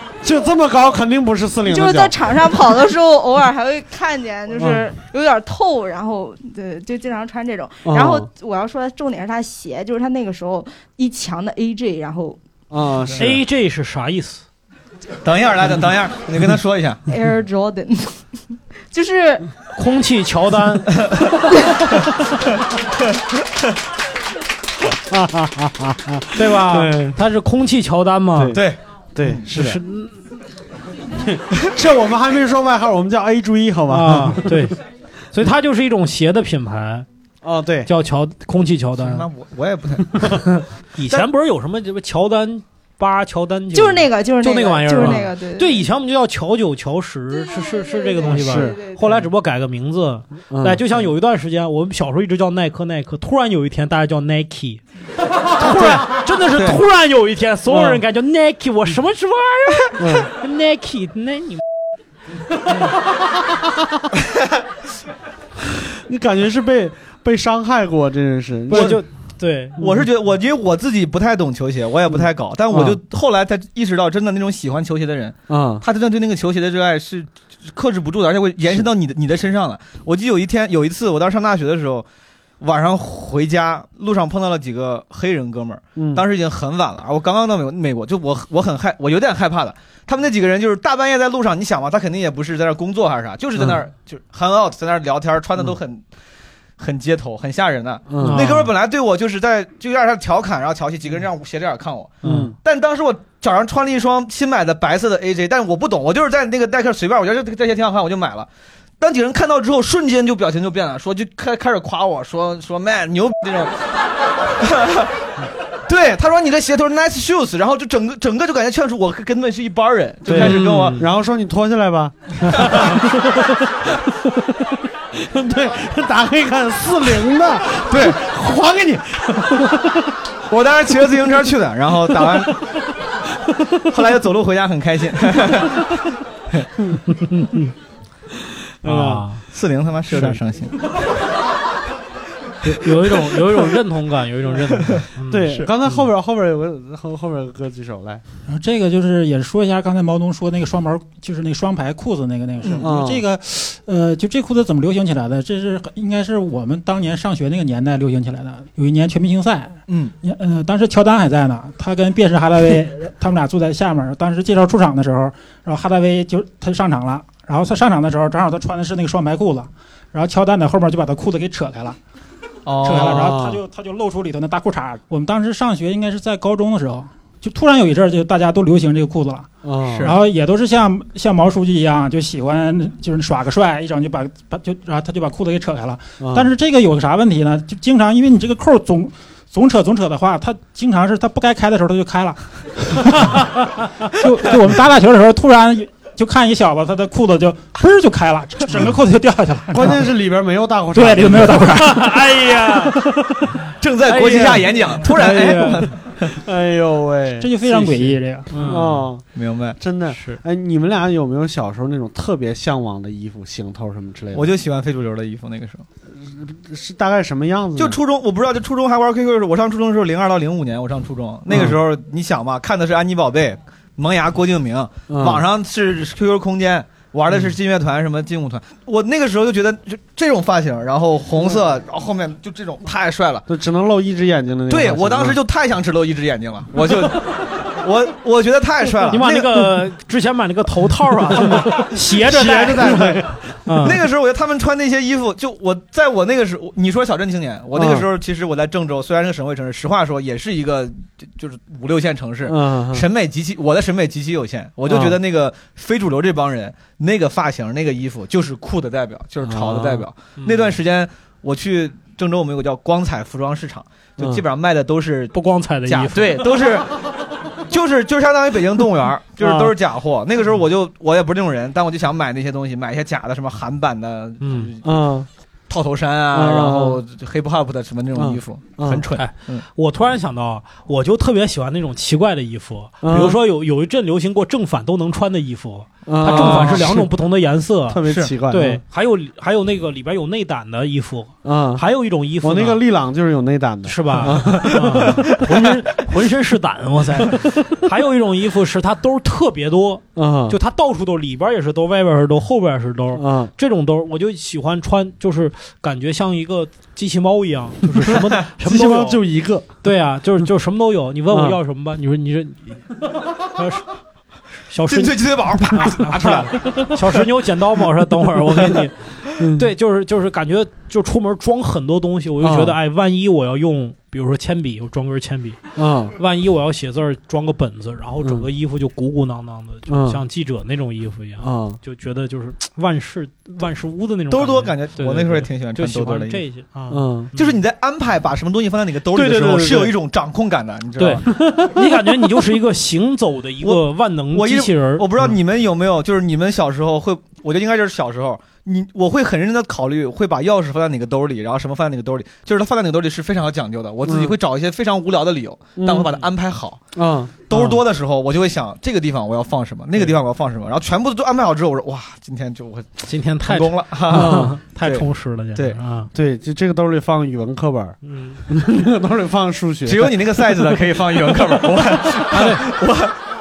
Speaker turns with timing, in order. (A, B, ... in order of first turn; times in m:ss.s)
0:00.2-0:02.2 A
0:01.7-0:12.4 B
0:04.6-0:04.8 A
0:07.8-0:08.3 A
0:12.7-0:13.4 A
0:13.2-0:14.4 C
0:15.2-0:17.0 D
0:17.1-0:18.4 B
0:18.9-0:19.5 B
0:19.8-0:21.0 C
0:24.9-0:27.2 A
0:26.3-0:28.6 C
0:28.3-0:29.8 A
0:28.5-0:29.4 D
0:29.5-0:30.1 C
0:31.2-0:34.7 A
0:33.9-0:34.8 C
0:35.3-0:37.1 C
0:37.4-0:37.9 A
0:37.8-0:39.2 C
0:39.0-0:40.2 D
0:40.2-0:54.8 C
0:43.7-0:45.8 B
0:47.3-0:49.2 B
0:48.3-0:48.8 A
0:50.5-0:51.0 A
0:55.5-1:01.6 C
0:56.5-0:56.8 D
0:57.7-0:58.0 A
1:00.0-1:00.3 A
1:05.9-1:09.0 A
1:08.7-1:09.8 C
1:08.7-1:09.0 D
1:09.8-1:22.0 D
1:12.7-1:13.0 A
1:15.5-1:15.8 A
1:22.6-1:36.0 D
1:26.0-1:26.2 A
1:36.8-1:48.5 D
1:38.1-1:38.5 A
1:38.2-1:38.7 C
1:42.2-1:42.5 C
1:42.2-1:42.5 A
1:49.0-1:53.7 D
1:54.6-1:55.1 D
1:55.9-2:01.0 D
2:00.2-2:03.3 A
2:00.3-2:01.0 C
2:02.6-2:02.9 D
2:05.1-2:10.0 A
2:07.9-2:08.2 D
2:10.5-2:12.7 D
2:13.8-2:15.9 D
2:17.1-2:17.7 C
2:18.8-2:19.2 A
2:18.8-2:19.4 C
2:19.5-2:20.8 D
2:22.6-2:26.0 C
2:25.3-2:28.2 A
2:28.5-2:52.0 E
2:32.6-2:32.9 D
2:32.8-2:33.2 A
2:39.9-2:40.1 D
2:52.6-2:53.2 D
2:52.8-2:59.5 E
2:52.9-2:53.6 A
2:59.6-3:00.1 A
2:59.8-3:00.1 D
3:00.0-3:20.0 E
3:06.2-3:06.5 A
3:19.7-3:21.7 A
3:20.9-3:22.1 E
3:21.8-3:23.5 C
3:23.8-3:26.4 D
3:24.0-3:25.4 C
3:25.0-3:28.0 A
3:27.4-3:28.7 E
3:28.5-3:29.1 C
3:28.6-3:29.2 A
3:29.3-3:29.8 D
3:29.8-3:34.5 A
3:30.1-3:30.4 C
3:34.3-3:35.8 D
3:36.1-3:38.0 A
3:37.8-3:53.4 D
3:41.5-3:41.8 A
3:45.1-3:45.4 A
3:53.5-3:55.4 A
3:54.7-3:59.7 D
3:59.1-4:04.0 C
4:01.6-4:03.4 A
4:03.8-4:25.3 D
4:07.7-4:08.1 A
4:12.4-4:13.0 A
4:14.9-4:15.2 A
4:19.4-4:20.0 A
4:20.4-4:20.7 C
4:25.3-4:26.5 C
4:25.8-4:27.0 D
4:27.7-4:35.0 D
4:29.4-4:29.7 A
4:34.4-4:34.7 C
4:34.8-4:35.3 A
4:35.7-4:39.6 D
4:36.3-4:37.0 A
4:38.1-4:39.1 A
4:39.2-4:52.8 C
4:43.0-4:43.4 A
4:46.0-4:47.1 A
4:46.3-4:46.8 D
4:47.9-4:48.8 A
4:48.0-4:48.3 D
4:51.4-4:51.8 A
4:52.4-4:55.4 A
4:53.8-5:09.2 C
5:00.1-5:00.6 A
5:03.1-5:03.5 A
5:08.6-5:09.7 A
5:09.8-5:13.8 C
5:11.3-5:11.6 A
5:14.7-5:25.6 C
5:14.9-5:17.0 D
5:19.4-5:19.7 A
5:22.4-5:22.8 A
5:25.8-5:26.1 A
5:26.2-5:37.6 C
5:28.2-5:28.4 A
5:29.9-5:30.2 A
5:31.4-5:31.8 A
5:34.3-5:36.4 D
5:36.9-5:37.3 A
5:37.4-5:41.3 D
5:39.1-5:39.9 A
5:41.0-5:45.1 C
5:43.6-5:56.8 D
5:54.0-5:54.3 A
5:55.8-5:56.2 A
5:57.0-5:57.8 A
5:57.5-6:05.8 D
6:03.1-6:06.1 C
6:04.1-6:04.6 A
6:06.1-6:08.0 A
6:08.0-6:08.4 C
6:08.5-6:10.4 A
6:09.8-6:13.1 D
6:12.3-6:12.6 C